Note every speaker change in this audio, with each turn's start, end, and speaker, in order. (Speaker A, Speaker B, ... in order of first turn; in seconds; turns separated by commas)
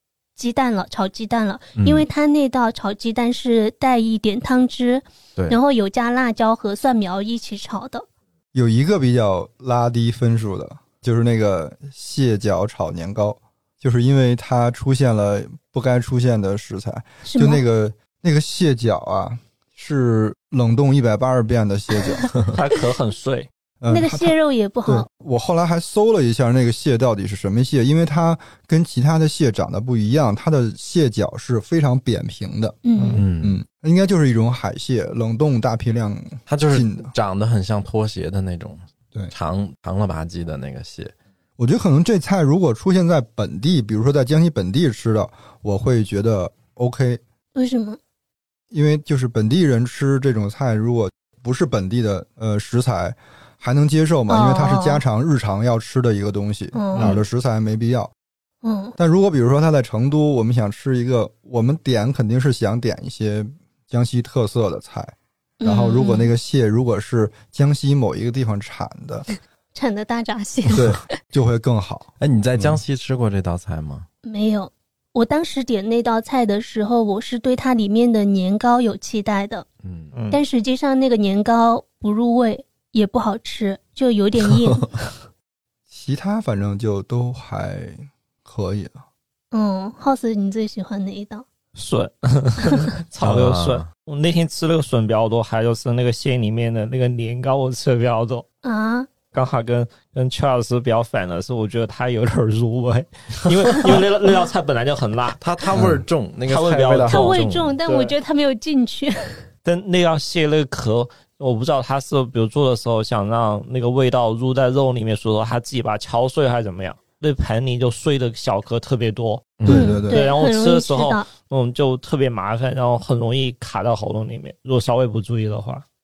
Speaker A: 0.4-8.1, Speaker B: 1.8-2.1, Speaker C: 8.5-22.3, Speaker A: 17.2-17.6, Speaker D: 22.5-23.5, Speaker C: 23.8-24.3, Speaker A: 23.9-25.1, Speaker C: 24.9-32.8, Speaker A: 32.8-33.2, Speaker B: 33.1-33.6, Speaker C: 33.4-37.1, Speaker B: 36.5-41.1, Speaker C: 41.6-47.2, Speaker A: 47.6-48.0, Speaker C: 48.7-58.1, Speaker A: 54.3-55.0, Speaker A: 56.7-57.1, Speaker A: 58.6-59.0, Speaker C: 59.0-69.3, Speaker A: 65.6-66.3, Speaker A: 69.7-71.0, Speaker C: 70.7-72.8, Speaker B: 72.2-74.1, Speaker A: 74.2-79.7, Speaker B: 79.8-80.1, Speaker D: 80.1-80.4, Speaker A: 80.3-84.9, Speaker B: 84.5-84.8, Speaker C: 85.9-89.0, Speaker A: 89.5-91.5, Speaker D: 91.8-98.5, Speaker B: 93.2-93.9, Speaker A: 98.6-99.1, Speaker D: 99.3-105.9, Speaker B: 105.4-107.8, Speaker C: 105.8-106.0, Speaker D: 106.5-108.2, Speaker A: 107.1-109.4, Speaker D: 109.7-125.8, Speaker B: 119.6-120.0, Speaker C: 119.7-120.2, Speaker A: 119.7-121.3